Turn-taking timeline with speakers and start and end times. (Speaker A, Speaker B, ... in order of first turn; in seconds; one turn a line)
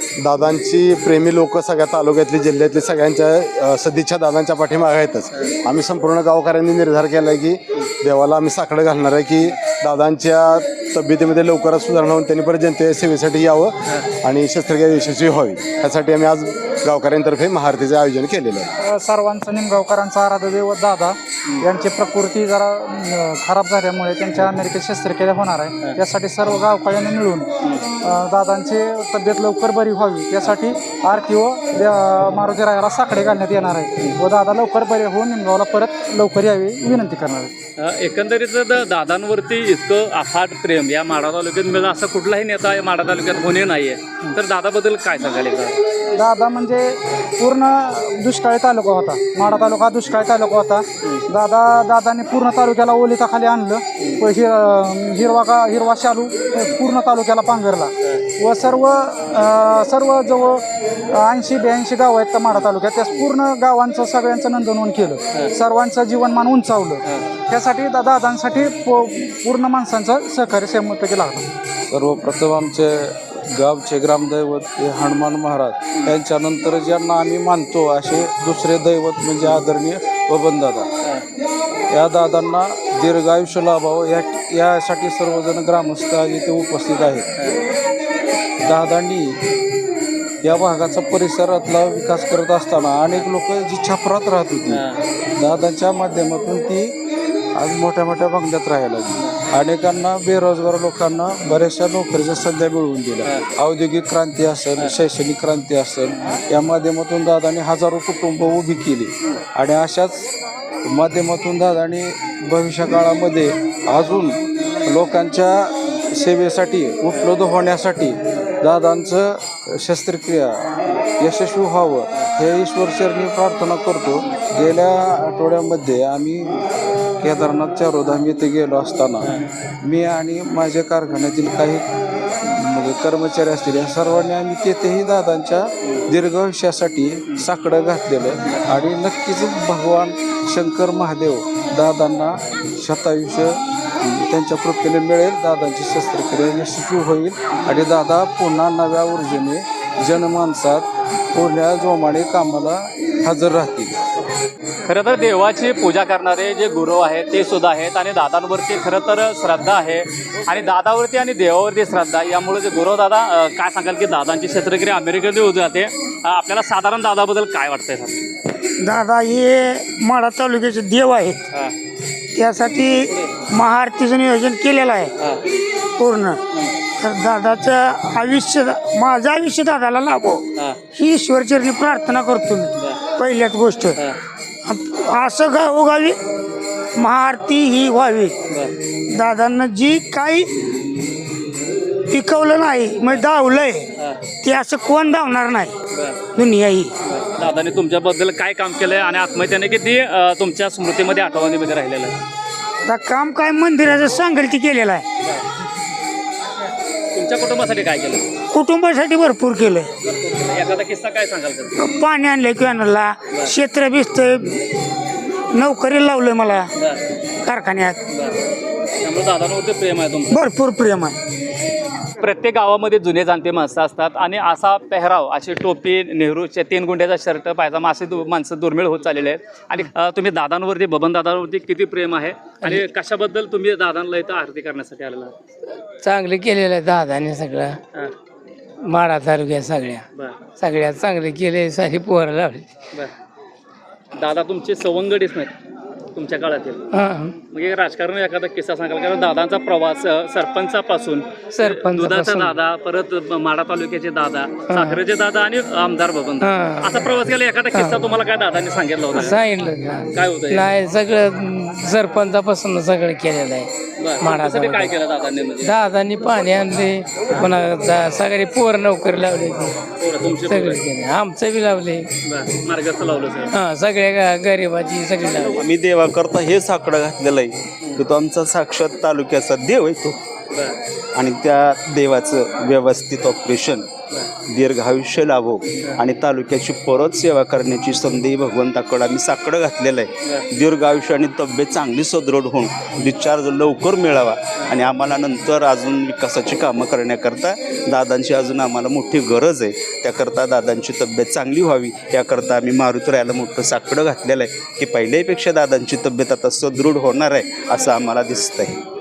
Speaker A: 0.2-18.7
Speaker B: 18.8-27.5
Speaker B: 28.0-37.5
Speaker C: 37.8-45.8
Speaker B: 46.1-71.5
Speaker D: 71.9-80.9
Speaker D: 81.9-87.3
Speaker D: 88.6-89.4
Speaker D: 90.4-94.8
Speaker C: 94.7-95.0
Speaker D: 95.4-97.0
Speaker D: 97.5-110.3
Speaker D: 110.8-120.7
Speaker D: 121.2-126.6
Speaker D: 127.2-131.9
Speaker D: 132.4-153.9
Speaker C: 154.8-168.2
Speaker E: 168.8-171.4
Speaker E: 172.3-175.1
Speaker E: 176.0-176.4
Speaker E: 177.0-184.0
Speaker E: 184.6-186.2
Speaker E: 186.9-188.3
Speaker E: 189.1-190.5
Speaker E: 192.1-193.9
Speaker E: 194.4-195.7
Speaker E: 196.3-196.9
Speaker C: 197.0-202.1
Speaker E: 202.8-205.0
Speaker C: 207.1-208.2
Speaker E: 208.5-209.9
Speaker C: 210.0-211.7
Speaker E: 211.8-214.5
Speaker E: 215.5-216.7
Speaker E: 217.4-218.0
Speaker C: 218.1-218.4
Speaker C: 219.0-220.4
Speaker E: 220.3-221.2
Speaker C: 222.2-235.3
Speaker F: 235.8-237.8
Speaker F: 238.8-240.0
Speaker F: 240.6-242.7
Speaker C: 244.1-245.5
Speaker C: 246.1-246.8
Speaker F: 246.9-247.3
Speaker C: 247.4-259.4
Speaker F: 251.5-252.6
Speaker F: 254.7-255.0
Speaker F: 256.4-257.1
Speaker F: 257.7-258.0
Speaker F: 259.1-264.9
Speaker C: 260.1-260.8
Speaker C: 264.0-265.8
Speaker F: 265.6-269.7
Speaker C: 270.0-270.9
Speaker F: 270.4-272.1
Speaker C: 272.2-273.5
Speaker F: 273.5-275.6
Speaker G: 275.6-280.2
Speaker G: 281.1-283.9
Speaker G: 284.5-308.8